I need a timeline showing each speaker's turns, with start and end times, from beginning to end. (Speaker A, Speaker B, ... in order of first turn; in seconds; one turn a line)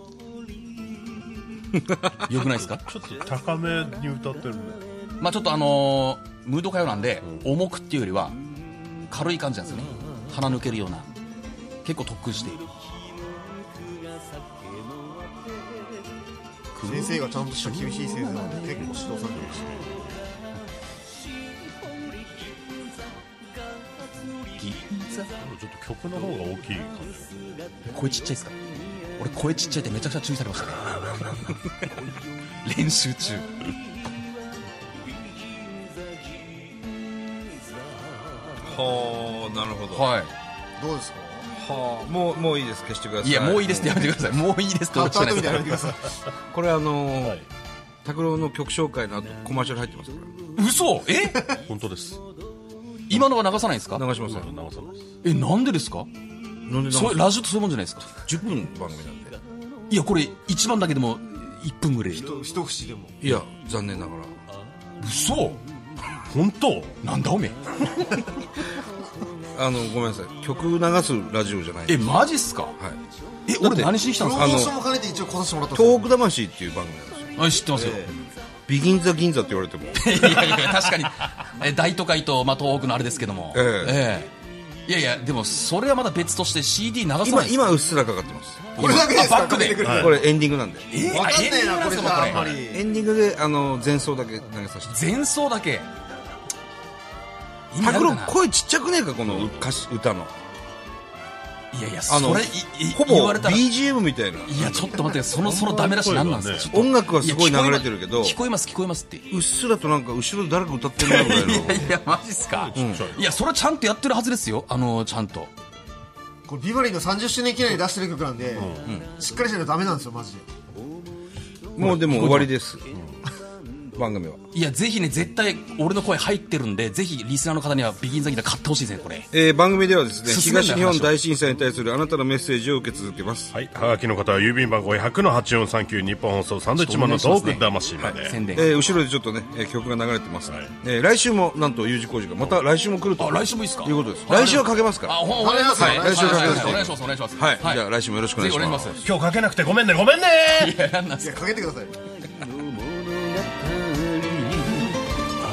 Speaker A: 2.3-2.8
Speaker B: 2.3-4.8
Speaker A: 5.2-8.4
Speaker A: 9.1-11.1
Speaker A: 11.8-12.7
Speaker A: 16.7-17.2
Speaker C: 16.8-19.9
Speaker B: 17.7-20.2
Speaker A: 24.4-25.3
Speaker B: 25.4-27.7
Speaker A: 27.8-28.6
Speaker A: 29.1-30.9
Speaker A: 32.6-33.6
Speaker D: 38.6-40.1
Speaker A: 39.9-40.3
Speaker C: 40.8-41.5
Speaker D: 41.5-44.1
Speaker A: 43.2-46.0
Speaker C: 44.9-46.1
Speaker D: 46.5-47.4
Speaker D: 48.0-50.4
Speaker A: 50.6-51.5
Speaker B: 51.7-52.2
Speaker A: 53.1-54.0
Speaker D: 53.9-54.5
Speaker B: 54.1-55.0
Speaker A: 55.2-56.1
Speaker D: 56.7-57.3
Speaker A: 56.9-58.1
Speaker D: 58.2-59.4
Speaker A: 59.9-62.3
Speaker C: 62.1-63.2
Speaker D: 63.2-64.3
Speaker A: 65.0-65.6
Speaker B: 66.2-66.9
Speaker A: 67.0-67.6
Speaker D: 69.5-72.1
Speaker A: 71.9-72.8
Speaker A: 73.5-74.8
Speaker D: 73.6-74.7
Speaker C: 74.2-76.1
Speaker D: 75.7-77.4
Speaker A: 77.4-78.1
Speaker C: 77.7-78.1
Speaker D: 78.7-80.4
Speaker A: 80.0-84.3
Speaker D: 83.5-84.0
Speaker A: 84.8-87.7
Speaker D: 87.2-89.1
Speaker A: 88.8-90.1
Speaker C: 88.8-90.3
Speaker D: 89.8-90.9
Speaker B: 89.8-90.1
Speaker A: 90.9-92.6
Speaker C: 91.0-92.8
Speaker D: 92.5-95.0
Speaker A: 94.9-95.9
Speaker A: 97.7-98.4
Speaker D: 97.8-100.3
Speaker A: 101.7-103.7
Speaker D: 102.1-105.0
Speaker A: 104.5-109.3
Speaker B: 104.6-106.7
Speaker D: 106.7-108.4
Speaker D: 109.3-112.0
Speaker A: 111.0-115.5
Speaker B: 112.5-113.2
Speaker D: 112.7-113.1
Speaker C: 116.5-120.4
Speaker B: 118.5-118.8
Speaker D: 118.8-119.1
Speaker D: 121.8-122.9
Speaker B: 121.8-122.5
Speaker D: 123.9-124.4
Speaker A: 124.5-129.3
Speaker D: 129.3-133.5
Speaker A: 130.2-131.2
Speaker B: 133.5-138.4
Speaker A: 136.7-139.0
Speaker D: 138.0-145.2
Speaker B: 140.4-140.7
Speaker A: 143.2-149.0
Speaker C: 145.4-146.9
Speaker D: 145.7-149.0
Speaker B: 149.0-150.8
Speaker A: 150.5-151.5
Speaker C: 151.2-152.0
Speaker A: 152.7-154.9